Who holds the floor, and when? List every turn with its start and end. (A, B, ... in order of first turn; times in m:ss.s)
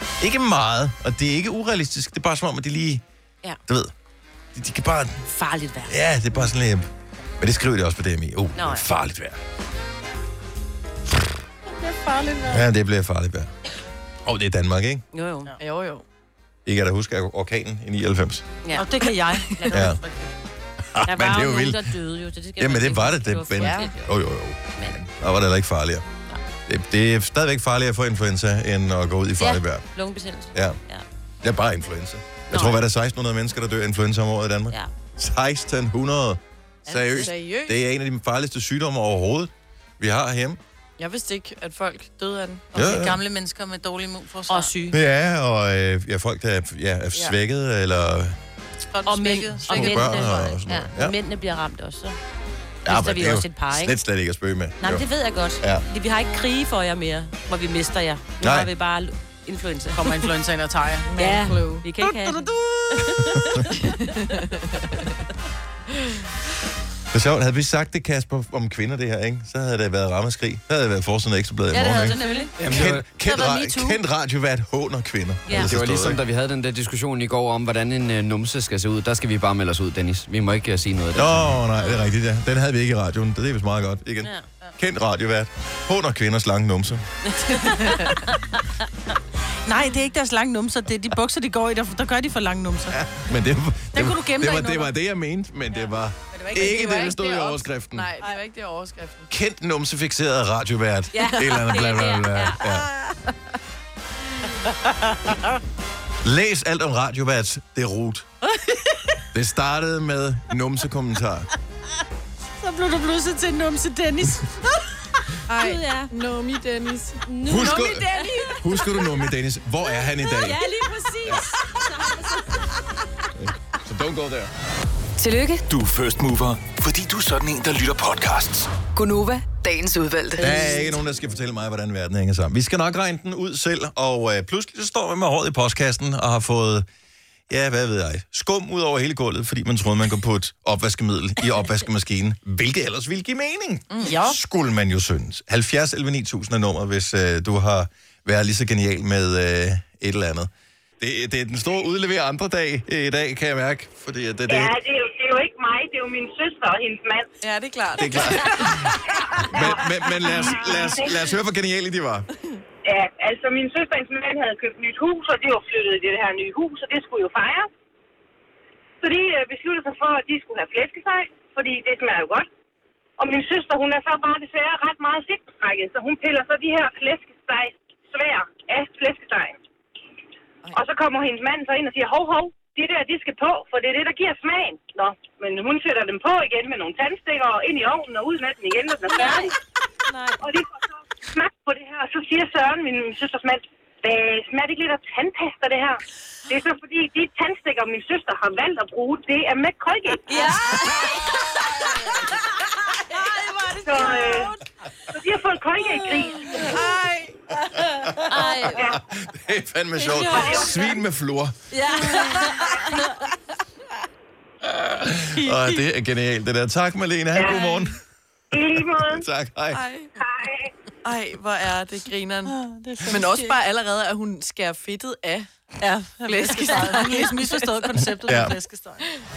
0:00.2-0:03.0 A
0:03.7-0:03.9 A
0:04.5-0:05.2 A
0:05.3-0:05.9 B
0:05.8-0:09.4 A
0:08.5-0:08.9 B
0:11.7-0:12.6 C
0:12.5-0:13.5 A
0:14.2-0:15.0 A
0:15.1-0:15.5 B
0:15.6-0:16.0 D
0:16.6-0:18.5 A
0:18.6-0:19.0 B
0:18.7-0:20.2 C
0:19.5-0:19.9 B
0:19.7-0:20.0 A
0:20.9-0:21.9 A
0:21.0-0:24.1 B
0:22.6-0:26.0 A
0:23.6-0:23.9 D
0:26.6-0:29.8 A
0:29.4-0:31.0 B
0:31.4-0:40.6 A
0:32.5-0:32.8 B
0:36.9-0:37.3 B
0:37.1-0:37.8 D
0:41.0-0:42.7 D
0:42.7-0:43.2 A
0:42.7-0:44.9 C
0:44.5-0:44.9 B
0:44.9-0:48.4 A
0:48.9-0:50.4 C
0:49.0-0:52.2 B
0:49.7-0:51.1 A
0:52.8-0:55.0 A
0:52.9-0:54.0 B
0:54.8-1:00.2 B
0:58.4-0:58.7 A
0:59.9-1:03.1 C
1:01.1-1:01.8 D
1:01.2-1:04.2 B
1:04.1-1:05.0 D
1:07.1-1:16.2 A
1:11.7-1:12.6 B
1:11.7-1:14.0 C
1:12.6-1:13.2 E
1:15.5-1:15.8 B
1:15.5-1:21.6 E
1:21.1-1:27.0 A
1:21.8-1:22.1 B
1:27.2-1:28.4 B
1:29.7-1:33.0 C
1:32.9-1:38.1 A
1:33.9-1:34.9 C
1:36.3-1:36.8 C
1:36.5-1:39.3 D
1:39.3-1:42.9 A
1:41.1-1:42.8 B
1:44.8-1:45.4 C
1:46.2-1:48.3 A
1:49.3-1:51.5 A
1:52.6-1:54.6 C
1:55.5-1:58.6 D
1:55.5-1:56.1 B
1:57.3-1:58.1 B
1:57.4-2:00.6 A
2:00.2-2:03.2 B
2:03.4-2:04.5 A
2:05.2-2:05.6 F
2:05.7-2:08.7 G
2:08.9-2:10.6 F
2:10.4-2:16.9 A
2:17.5-2:34.7 A
2:23.9-2:24.4 C
2:34.4-2:37.3 H
2:37.4-2:38.9 D
2:38.0-2:42.3 A
2:39.4-2:41.1 H
2:42.8-2:47.7 H
2:49.0-2:52.5 H
2:53.2-2:59.6 H
3:00.7-3:09.6 H
3:09.0-3:09.5 B
3:10.1-3:10.4 B
3:10.4-3:20.3 H
3:20.2-3:21.8 B
3:22.9-3:24.5 B
3:23.8-3:24.5 H
3:25.1-3:26.6 H
3:25.8-3:26.7 B
3:27.9-3:29.0 B
3:28.3-3:31.6 A
3:28.7-3:29.0 H
3:30.0-3:31.0 B
3:30.3-3:30.7 H
3:31.7-3:33.2 B
3:32.1-3:32.6 D
3:34.6-3:38.0 A
3:35.3-3:35.8 C
3:37.3-3:37.7 H
3:38.5-3:39.2 H
3:39.0-3:39.8 A
3:39.7-3:40.2 D
3:40.2-3:40.7 H
3:41.0-3:45.6 D
3:42.5-3:43.6 C
3:45.8-3:49.0 C
3:46.2-3:48.1 D
3:48.2-3:48.6 A